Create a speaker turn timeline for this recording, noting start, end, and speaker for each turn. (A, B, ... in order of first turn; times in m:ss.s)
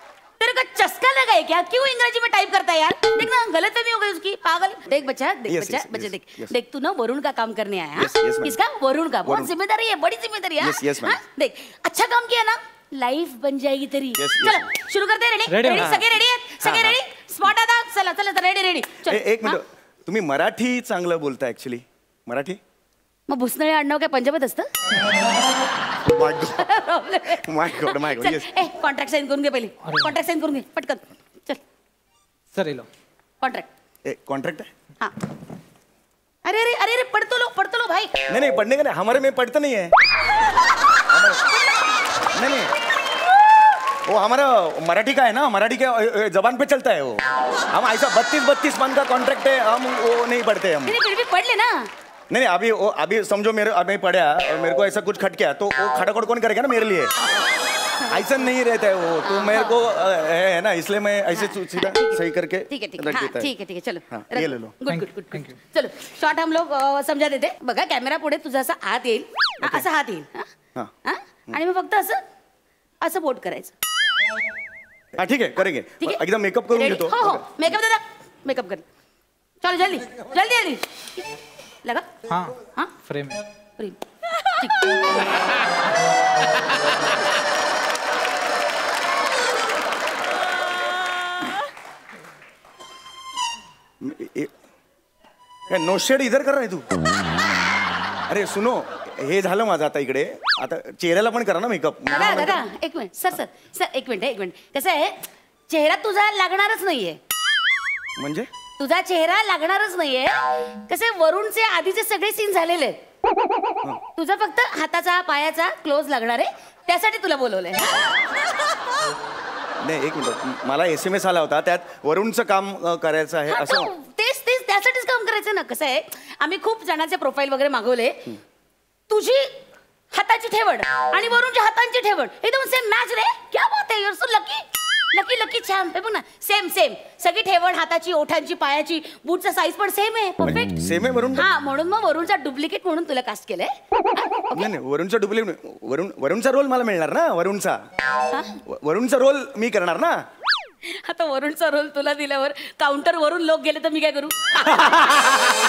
0:00.4-0:19.6 A
0:05.5-0:06.5 B
0:08.0-0:08.6 B
0:09.2-0:09.5 B
0:10.6-0:11.2 B
0:14.2-0:14.6 B
0:15.5-0:16.0 C
0:15.7-0:16.0 B
0:16.6-0:17.0 B
0:19.1-0:22.6 B
0:23.3-0:24.7 A
0:26.1-0:26.7 B
0:26.6-0:31.6 A
0:27.4-0:28.5 B
0:29.8-0:30.1 C
0:32.5-0:32.9 C
0:33.4-0:33.7 A
0:34.0-0:34.7 B
0:36.4-0:38.2 A
0:38.3-0:39.9 B
0:41.1-0:41.4 B
0:41.5-0:41.8 A
0:42.3-0:42.7 B
0:44.1-0:51.0 B
0:50.9-0:51.9 A
0:52.3-0:57.1 B
0:58.1-1:03.5 B
0:59.2-0:59.8 A
1:01.4-1:02.2 A
1:02.7-1:10.5 A
1:04.1-1:04.8 B
1:04.9-1:05.5 C
1:11.0-1:12.2 A
1:13.0-1:13.7 A
1:15.2-1:17.4 B
1:16.7-1:18.8 A
1:19.6-1:21.2 A
1:22.3-1:22.5 C
1:23.1-1:23.4 C
1:24.5-1:25.2 A
1:34.0-1:34.5 B
1:35.7-1:37.0 B
1:38.3-1:42.6 B
1:42.1-1:47.2 A
1:48.2-1:48.5 B
1:48.8-1:53.0 A
1:54.2-1:58.2 A
1:59.8-2:03.9 B
2:03.5-2:08.3 A
2:09.1-2:09.5 A
2:10.1-2:20.8 A
2:20.4-2:21.5 B
2:21.4-2:24.7 A
2:24.6-2:27.8 B
2:28.7-2:30.2 B
2:30.9-2:35.1 A